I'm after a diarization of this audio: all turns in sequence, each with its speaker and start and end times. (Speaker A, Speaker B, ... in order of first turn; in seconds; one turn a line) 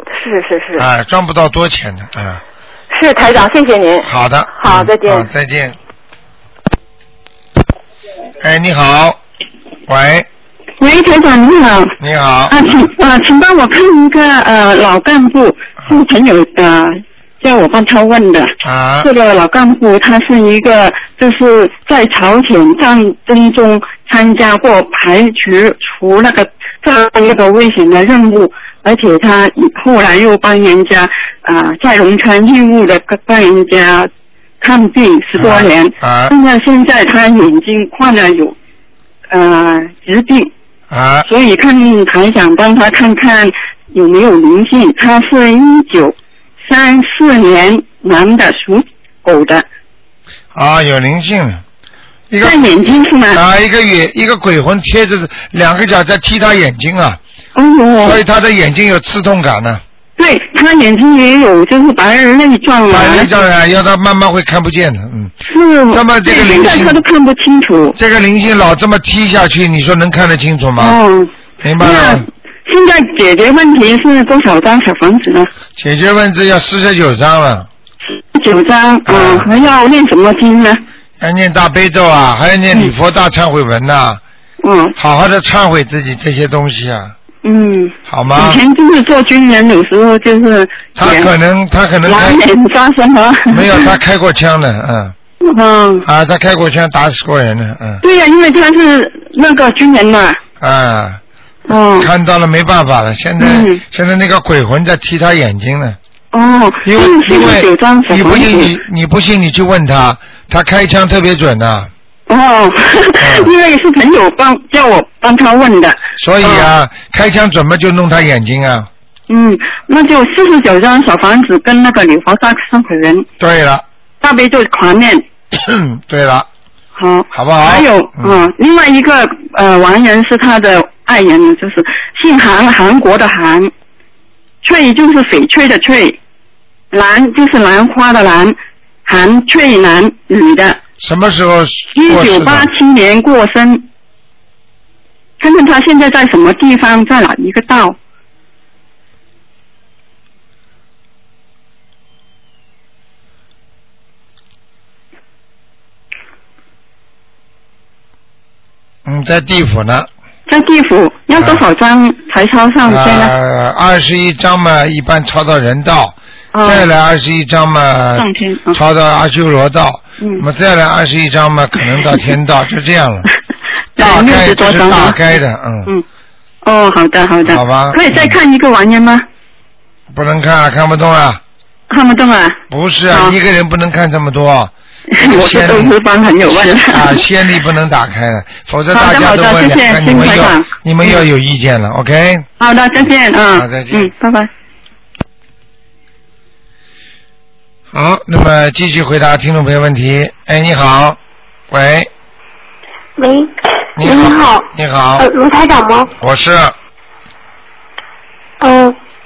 Speaker A: 0.1-0.9
Speaker B: 0.8-2.4
Speaker A: 2.9-5.3
Speaker B: 4.0-5.8
Speaker B: 8.4-9.2
Speaker B: 9.9-10.3
Speaker C: 10.8-11.9
Speaker B: 12.0-12.7
Speaker C: 12.5-34.1
Speaker B: 18.6-19.1
Speaker C: 34.6-38.5
Speaker B: 35.4-36.3
Speaker C: 39.3-40.5
Speaker B: 40.9-41.3
Speaker C: 41.2-49.6
Speaker B: 50.5-51.6
Speaker B: 52.3-52.6
Speaker C: 52.4-53.4
Speaker B: 53.3-57.2
Speaker C: 57.5-58.2
Speaker B: 58.0-59.8
Speaker C: 60.2-63.3
Speaker B: 62.9-65.3
Speaker C: 65.5-67.9
Speaker B: 65.9-67.0
Speaker B: 67.9-71.0
Speaker C: 70.8-75.5
Speaker B: 71.6-72.3
Speaker B: 75.8-77.7
Speaker C: 78.3-80.8
Speaker B: 79.1-79.5
Speaker B: 81.2-84.2
Speaker C: 84.6-84.9
Speaker B: 85.0-87.1
Speaker C: 87.4-91.3
Speaker B: 88.1-88.6
Speaker B: 91.0-92.4
Speaker C: 92.0-93.9
Speaker B: 93.5-95.1
Speaker C: 95.5-96.0
Speaker B: 96.0-98.0
Speaker C: 98.0-100.4
Speaker B: 100.6-101.2
Speaker C: 101.7-102.1
Speaker B: 102.0-106.0
Speaker C: 103.4-103.8
Speaker C: 106.3-108.7
Speaker B: 106.8-111.9
Speaker C: 112.3-116.7
Speaker B: 113.2-113.5
Speaker B: 116.2-118.9
Speaker C: 119.3-123.3
Speaker B: 123.4-123.8
Speaker C: 124.2-125.2
Speaker B: 125.5-126.5
Speaker C: 127.0-133.7
Speaker B: 127.3-128.4
Speaker C: 134.6-136.2
Speaker C: 136.9-140.8
Speaker B: 141.0-142.7
Speaker C: 141.9-143.8
Speaker C: 145.4-148.0
Speaker B: 159.1-160.1
Speaker C: 160.5-163.3
Speaker B: 162.8-173.3
Speaker C: 166.5-166.9
Speaker C: 168.2-168.8
Speaker C: 173.9-175.2
Speaker B: 174.0-175.9
Speaker C: 176.6-179.2
Speaker B: 177.4-178.3
Speaker B: 180.1-181.4
Speaker C: 181.9-182.6
Speaker B: 182.7-192.5
Speaker C: 185.1-187.2
Speaker C: 188.9-191.2
Speaker C: 192.6-194.5
Speaker B: 193.5-194.1
Speaker B: 197.9-201.2
Speaker B: 201.7-202.1
Speaker D: 203.2-204.7
Speaker B: 204.0-205.3
Speaker D: 205.2-206.1
Speaker B: 206.2-206.7
Speaker D: 208.6-208.9